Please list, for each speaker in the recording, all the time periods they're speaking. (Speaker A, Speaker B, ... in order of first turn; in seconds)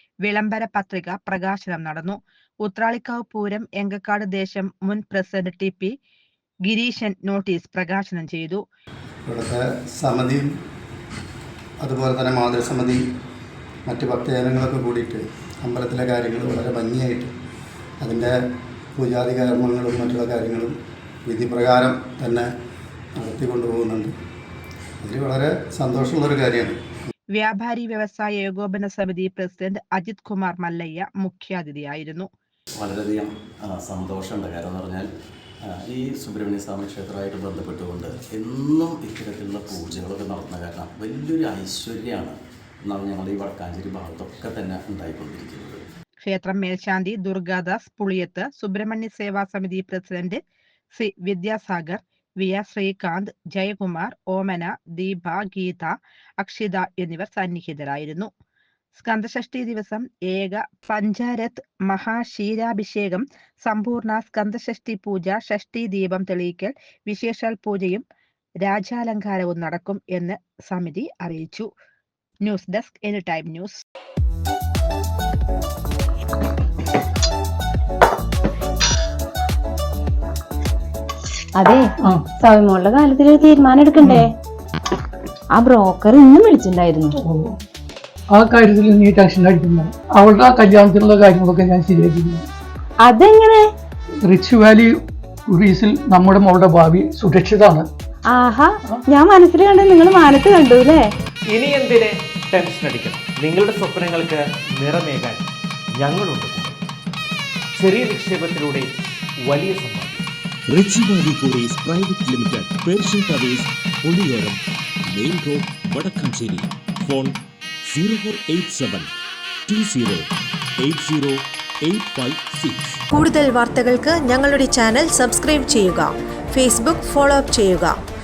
Speaker A: 0.2-5.9, 6.7-8.6, 27.3-32.3, 46.2-50.4, 50.9-58.3, 58.9-68.0, 68.6-71.7, 72.4-73.8
Speaker B: 9.3-10.5, 11.8-13.0, 13.9-17.3, 18.0-18.3, 18.9-20.7, 21.2-22.5, 23.2-24.1, 25.0-26.7
Speaker C: 32.8-35.1, 35.9-42.3, 42.9-45.9
Speaker D: 81.5-84.2, 85.5-87.2, 93.0-93.6, 98.3-101.1
Speaker E: 84.0-84.3, 87.2-87.6, 88.3-92.5, 94.2-97.9
Speaker F: 101.5-105.4, 106.0-106.8, 107.8-110.2
Speaker G: 110.7-119.1, 119.7-120.3, 120.8-123.0
Speaker H: 123.1-127.9